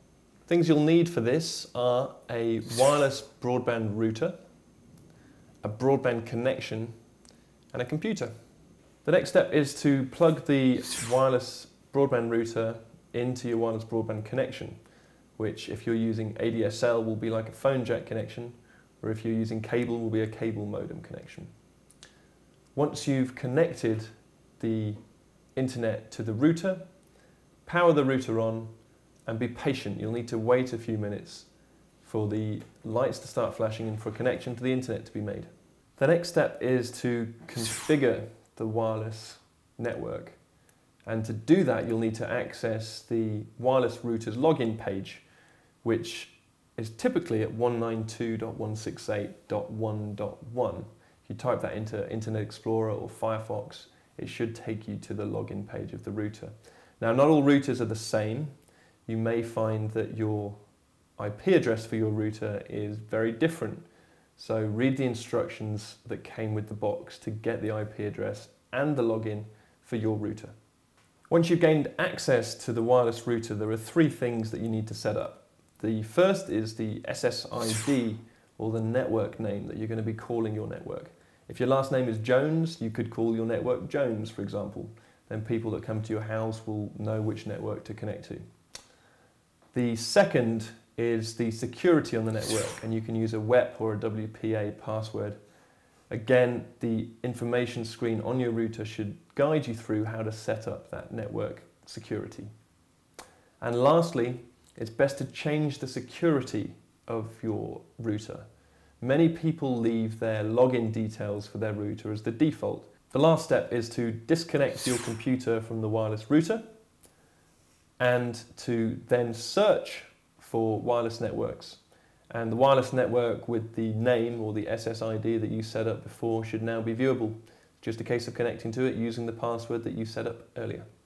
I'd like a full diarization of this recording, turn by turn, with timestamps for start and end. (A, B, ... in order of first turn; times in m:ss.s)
0:00.5-0:04.4 A
0:05.6-0:07.0 A
0:07.7-0:08.3 A
0:09.0-0:14.8 A
0:15.4-0:21.5 A
0:22.8-0:25.0 A
0:25.5-0:26.8 A
0:27.6-0:28.7 A
0:29.3-0:31.5 A
0:32.0-0:40.4 A
0:41.0-0:45.2 A
0:45.8-1:00.6 A
1:01.2-1:10.5 A
1:11.3-1:28.4 A
1:29.7-1:35.4 A
1:36.1-1:42.5 A
1:43.6-1:48.5 A
1:49.0-1:56.6 A
1:58.0-2:10.9 A